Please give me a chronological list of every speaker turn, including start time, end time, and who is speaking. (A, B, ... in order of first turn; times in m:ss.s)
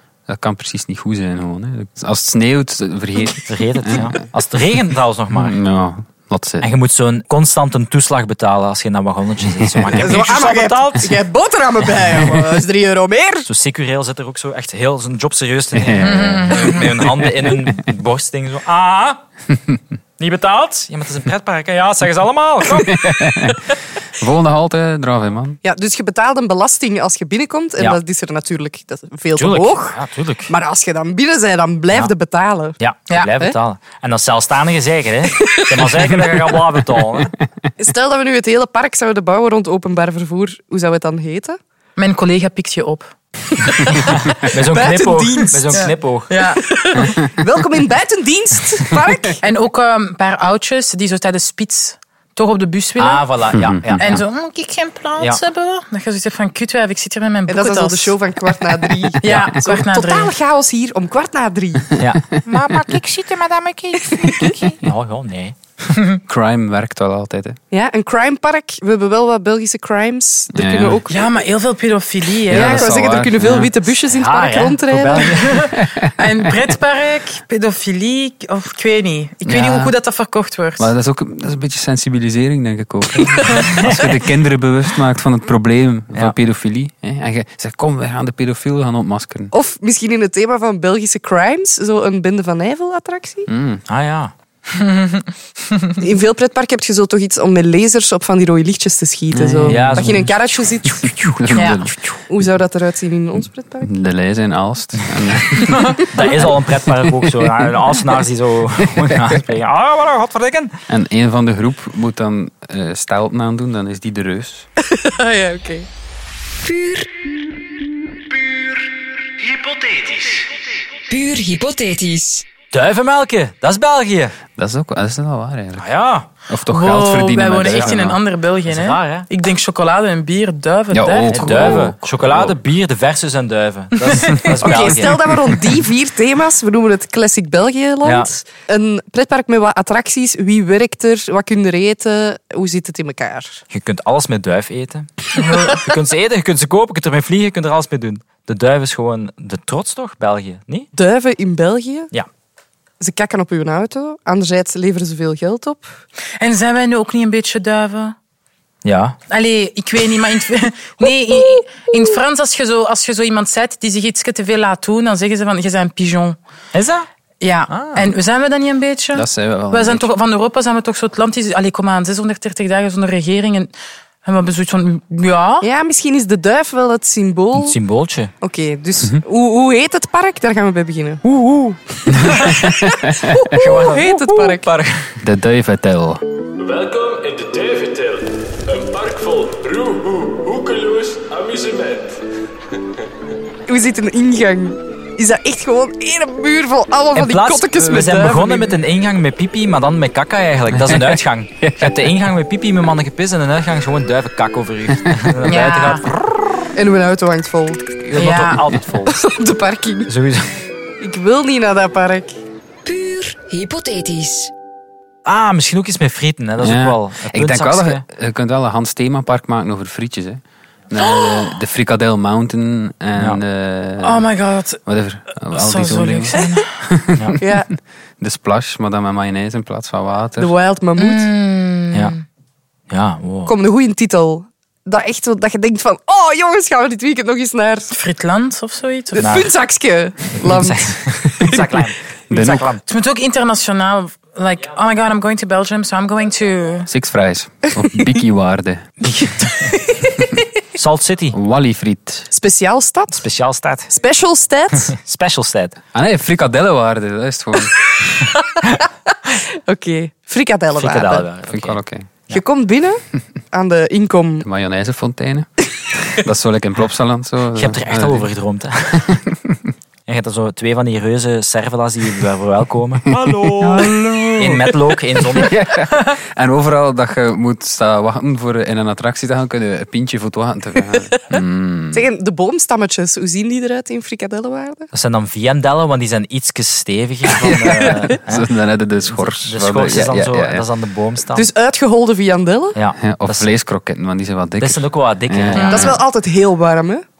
0:00.3-0:04.2 A
0:03.5-0:05.6 B
0:05.3-0:06.7 A
0:06.6-0:11.1 B
0:09.9-0:13.5 C
0:13.5-0:19.2 B
0:15.8-0:17.7 A
0:16.0-0:16.8 D
0:20.2-0:23.2 B
0:22.7-0:25.6 A
0:25.6-0:32.8 C
0:29.4-0:30.5 B
0:32.8-0:37.3 B
0:35.4-0:35.9 C
0:37.8-0:41.6 C
0:42.0-0:43.1 D
0:43.6-0:44.3 D
0:44.4-0:46.3 B
0:44.6-0:45.9 C
0:45.7-0:47.1 D
0:46.6-0:49.4 C
0:49.4-0:53.2 D
0:53.0-0:54.2 B
0:53.6-0:54.2 A
0:54.0-0:58.2 D
0:57.5-1:02.0 C
0:59.2-1:00.3 D
1:02.0-1:03.9 B
1:04.0-1:04.6 C
1:04.6-1:05.6 B
1:06.2-1:07.6 A
1:07.7-1:11.3 C
1:10.5-1:11.0 A
1:11.1-1:12.9 D
1:12.5-1:15.4 C
1:12.5-1:13.8 A
1:14.0-1:15.6 B
1:15.4-1:16.6 A
1:15.4-1:20.9 D
1:19.4-1:20.0 A
1:20.8-1:29.5 A
1:29.5-1:33.5 C
1:33.5-1:33.8 A
1:33.9-1:34.3 B
1:34.8-1:35.2 D
1:36.0-1:43.9 C
1:39.3-1:40.3 A
1:39.7-1:40.6 B
1:40.8-1:42.2 A
1:41.5-1:41.8 D
1:43.8-1:46.0 A
1:45.7-1:46.0 D
1:46.1-1:50.7 B
1:50.9-1:54.7 A
1:54.9-1:55.9 C
1:56.6-1:57.5 E
1:59.6-2:00.2 F
2:01.1-2:02.4 E
2:02.7-2:04.4 B
2:04.6-2:05.9 A
2:05.8-2:06.3 B
2:06.5-2:08.2 A
2:06.7-2:11.8 D
2:07.5-2:08.1 B
2:08.7-2:09.3 B
2:10.9-2:12.6 A
2:11.3-2:15.6 B
2:14.6-2:23.6 C
2:18.0-2:18.3 B
2:23.7-2:30.9 B
2:31.0-2:32.1 C
2:33.0-2:35.9 C
2:36.4-2:38.2 D
2:38.8-2:39.2 B
2:39.3-2:46.4 D
2:46.7-2:47.1 B
2:47.4-2:53.7 D
2:47.7-2:48.1 B
2:49.1-2:50.1 A
2:54.2-2:55.7 D
2:55.6-2:57.8 C
2:57.6-2:58.3 B
2:58.4-3:02.5 C
3:02.2-3:03.6 A
3:03.5-3:05.1 B
3:03.6-3:04.7 C
3:05.2-3:06.2 A
3:06.6-3:12.2 F
3:13.7-3:18.8 C
3:17.2-3:26.1 B
3:20.8-3:22.1 A
3:25.4-3:26.0 D
3:26.8-3:27.9 C
3:28.0-3:29.2 B
3:28.2-3:28.6 D
3:29.1-3:30.1 C
3:30.1-3:30.5 B
3:31.0-3:32.3 C
3:32.8-3:34.5 E
3:35.3-3:38.0 B
3:36.6-3:44.3 A
3:41.0-3:41.4 D
3:44.0-3:44.8 D
3:44.8-3:47.5 A
3:45.5-3:46.7 D
3:47.4-3:47.7 C
3:48.2-3:50.5 A
3:50.4-3:51.3 C
3:51.0-3:52.2 D
3:52.9-3:53.6 B
3:53.5-3:57.9 C
3:57.9-3:59.3 D
3:59.1-4:01.9 C
3:59.2-3:59.5 B
4:00.4-4:02.8 B
4:02.3-4:02.7 A
4:02.9-4:06.9 D
4:06.9-4:08.9 A
4:09.2-4:10.2 D
4:10.8-4:11.4 B
4:11.3-4:12.3 A
4:12.3-4:13.3 C
4:13.2-4:13.9 B
4:13.9-4:14.9 C
4:14.9-4:15.8 B
4:15.9-4:17.8 A
4:19.3-4:21.3 C
4:20.8-4:22.4 B
4:21.5-4:22.1 A
4:22.3-4:23.0 C
4:23.5-4:24.5 C
4:24.4-4:28.3 A
4:27.6-4:29.2 B
4:29.1-4:29.6 A
4:30.1-4:33.1 B
4:33.2-4:42.0 A
4:33.6-4:35.6 B
4:41.9-4:44.9 C
4:44.9-4:48.5 B
4:47.8-4:50.7 A
4:49.0-4:51.5 B
4:51.3-4:52.8 C
4:52.8-4:53.5 B
4:53.0-4:56.0 A
4:54.6-4:56.0 B
4:55.5-4:57.0 C